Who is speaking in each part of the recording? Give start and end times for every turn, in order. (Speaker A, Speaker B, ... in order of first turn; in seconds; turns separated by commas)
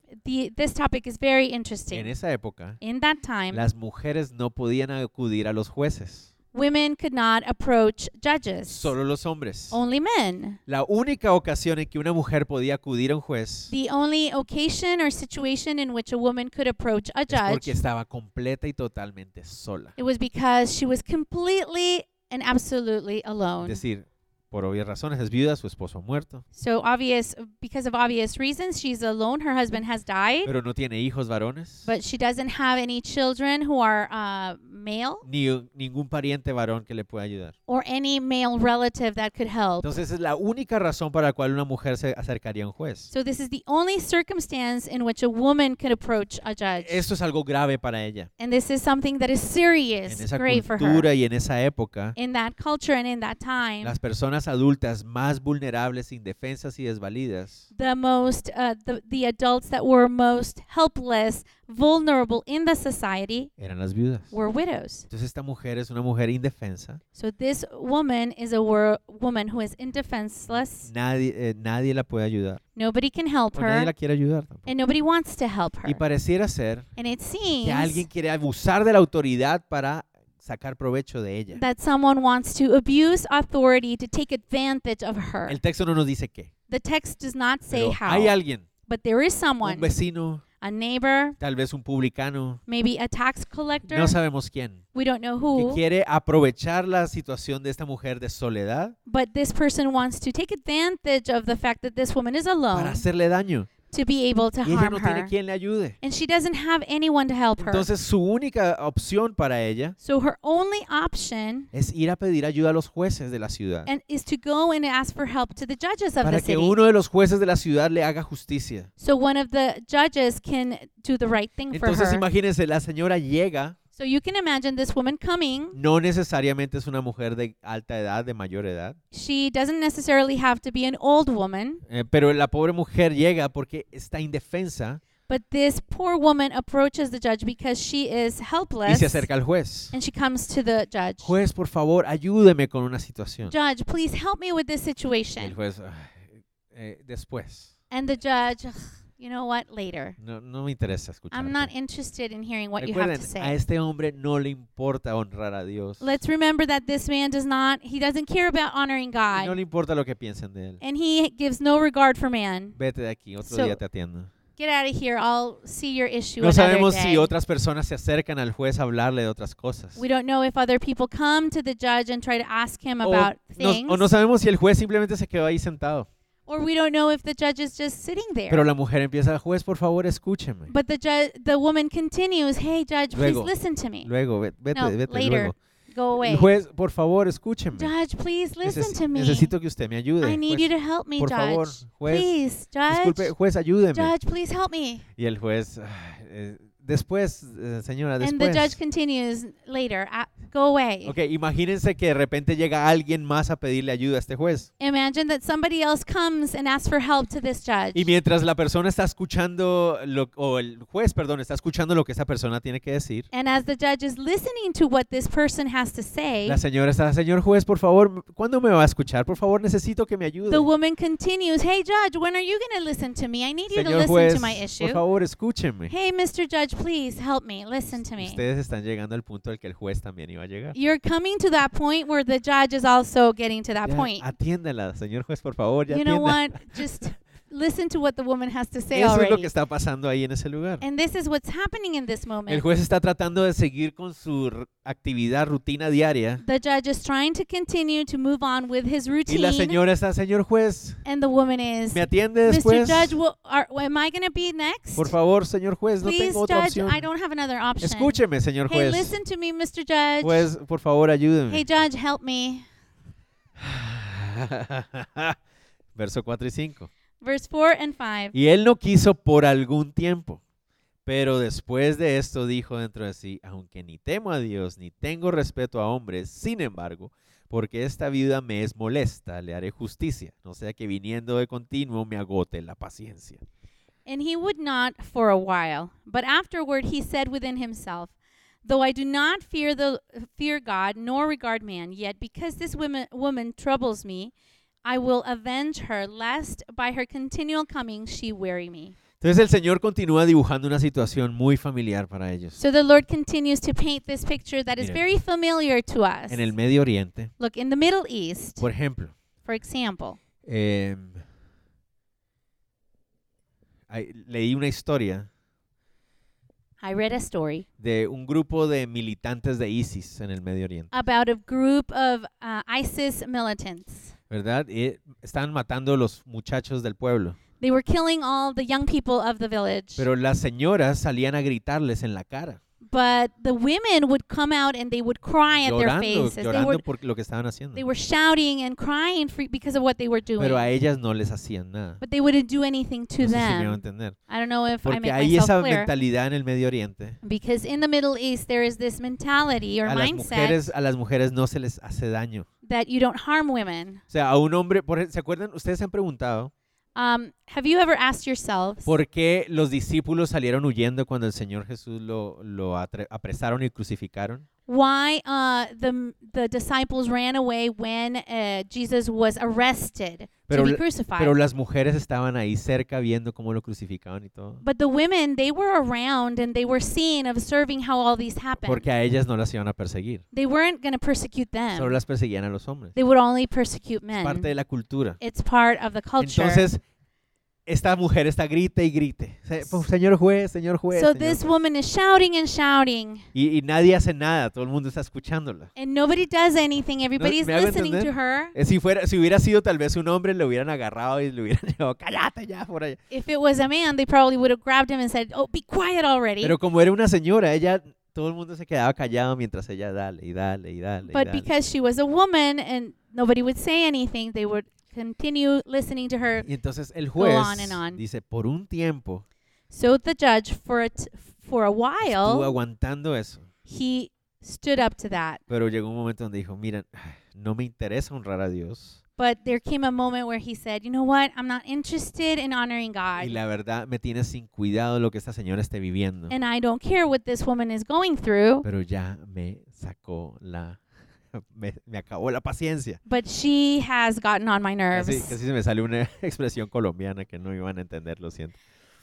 Speaker A: 0.2-2.1, Speaker B: 1.9-2.8, Speaker A: 2.8-3.6, Speaker B: 3.5-6.3, Speaker A: 6.5-8.9, Speaker B: 8.7-9.8, Speaker A: 9.7-10.6, Speaker B: 10.7-13.7, Speaker A: 13.7-17.8, Speaker B: 17.3-19.9, Speaker A: 20.0-23.8, Speaker B: 23.6-26.4, Speaker A: 26.5-30.5, Speaker B: 30.4-31.9, Speaker A: 31.8-35.2, Speaker B: 35.2-37.5, Speaker A: 37.7-39.9, Speaker B: 39.8-43.1, Speaker A: 43.1-47.0, Speaker B: 46.8-48.3, Speaker A: 48.4-51.1, Speaker B: 50.1-52.1, Speaker A: 52.1-54.0, Speaker B: 53.8-57.7, Speaker A: 57.7-63.5, Speaker B: 63.6-64.3, Speaker A: 64.3-65.0, Speaker B: 65.1-67.0, Speaker A: 67.1-70.9, Speaker B: 70.5-72.6, Speaker A: 72.8-73.9, Speaker B: 73.5-74.7, Speaker A: 74.7-76.0, Speaker B: 75.8-76.9, Speaker A: 77.0-78.0, Speaker B: 77.6-81.6, Speaker A: 81.5-85.6, Speaker B: 85.5-86.5, Speaker A: 86.7-88.3, Speaker B: 87.7-88.7, Speaker A: 88.9-89.9, Speaker B: 89.6-90.4, Speaker A: 90.6-91.4, Speaker B: 91.4-92.6, Speaker A: 92.7-94.2, Speaker B: 93.9-94.8, Speaker A: 94.9-95.8, Speaker B: 95.5-98.9, Speaker A: 99.1-103.0, Speaker B: 102.7-103.7, Speaker A: 103.9-105.3, Speaker B: 104.6-106.0, Speaker A: 106.0-107.9, Speaker B: 107.6-110.0, Speaker A: 110.0-111.7, Speaker B: 111.7-113.9, Speaker A: 113.8-116.8, Speaker B: 116.2-118.9, Speaker A: 119.0-122.2, Speaker B: 121.7-123.8, Speaker A: 124.0-125.8, Speaker B: 125.7-129.0, Speaker A: 129.1-131.8, Speaker B: 131.9-135.0, Speaker A: 135.3-139.3, Speaker B: 138.8-139.9, Speaker A: 139.9-141.3, Speaker B: 141.2-143.5, Speaker A: 143.5-145.6, Speaker B: 145.4-147.7, Speaker A: 147.9-150.2, Speaker B: 150.2-151.7, Speaker A: 151.3-153.6, Speaker B: 152.8-156.2, Speaker A: 156.0-159.6, Speaker B: 159.3-160.8, Speaker A: 160.8-162.8, Speaker B: 162.8-164.3, Speaker A: 163.4-163.8, Speaker A: 164.6-167.3, Speaker B: 166.4-170.0, Speaker A: 169.9-174.1, Speaker B: 173.0-176.1, Speaker A: 176.5-178.7, Speaker B: 178.5-180.7, Speaker A: 180.7-184.1, Speaker B: 183.1-183.5, Speaker B: 184.0-185.5, Speaker A: 184.7-186.5, Speaker B: 186.2-187.9, Speaker A: 187.7-189.5, Speaker B: 188.6-192.3, Speaker A: 190.2-193.3, Speaker B: 192.9-194.1, Speaker A: 193.9-195.0, Speaker B: 195.2-198.8, Speaker A: 198.2-201.2, Speaker B: 201.0-204.7, Speaker A: 204.8-208.1, Speaker B: 207.9-213.3, Speaker A: 213.3-216.6, Speaker B: 216.4-220.7, Speaker A: 220.5-225.0, Speaker B: 223.7-225.9, Speaker A: 225.9-228.4, Speaker B: 228.2-230.7, Speaker A: 230.7-234.3, Speaker B: 233.8-236.8, Speaker A: 235.9-239.5, Speaker B: 238.9-240.8, Speaker A: 240.8-242.6, Speaker B: 242.5-246.4, Speaker A: 246.4-249.8, Speaker B: 249.3-251.0, Speaker A: 251.0-255.1, Speaker B: 251.9-253.2, Speaker B: 254.9-257.1, Speaker A: 256.0-260.5, Speaker B: 257.8-259.2, Speaker B: 260.2-261.6, Speaker A: 261.5-262.6, Speaker B: 263.6-265.4, Speaker B: 265.9-266.9, Speaker A: 267.2-268.3, Speaker B: 268.3-270.4, Speaker B: 271.1-283.4, Speaker A: 284.1-288.1, Speaker A: 288.6-294.3, Speaker A: 294.8-298.9, Speaker B: 299.2-302.6, Speaker A: 302.6-306.5, Speaker B: 306.3-307.3, Speaker A: 307.4-308.6, Speaker B: 308.6-309.1, Speaker A: 309.4-310.2, Speaker B: 310.4-311.2, Speaker B: 313.9-315.3, Speaker A: 316.8-317.6, Speaker B: 317.8-320.9, Speaker A: 320.9-324.1, Speaker B: 324.3-327.4, Speaker A: 327.6-330.1, Speaker B: 330.0-332.6, Speaker A: 332.9-336.8, Speaker B: 335.6-337.8, Speaker A: 337.7-340.7, Speaker B: 340.4-342.0, Speaker A: 342.0-345.9, Speaker B: 343.2-344.1, Speaker B: 344.8-347.2, Speaker A: 347.2-350.7, Speaker B: 349.8-352.4, Speaker A: 352.6-354.0, Speaker B: 354.1-356.5, Speaker A: 356.9-358.9, Speaker B: 358.9-364.4, Speaker A: 364.7-371.3, Speaker B: 370.5-374.6, Speaker A: 374.6-378.9, Speaker B: 378.6-380.2, Speaker A: 380.3-382.0, Speaker B: 381.8-382.9, Speaker A: 382.9-384.5, Speaker B: 384.2-385.2, Speaker A: 385.2-386.7, Speaker B: 386.2-386.8, Speaker B: 387.7-391.4, Speaker A: 390.9-393.3, Speaker B: 393.3-395.7, Speaker A: 395.8-398.5, Speaker B: 397.2-403.0, Speaker A: 403.1-406.6, Speaker B: 406.4-411.5, Speaker A: 411.1-416.5, Speaker B: 416.4-419.2, Speaker A: 417.1-418.0, Speaker A: 419.7-422.6, Speaker B: 422.0-423.4, Speaker A: 423.7-425.4, Speaker B: 425.5-429.0, Speaker A: 429.2-433.4, Speaker B: 433.2-436.3, Speaker A: 436.3-438.6, Speaker B: 438.6-440.8, Speaker B: 441.3-443.0, Speaker A: 443.1-445.4, Speaker B: 444.9-448.6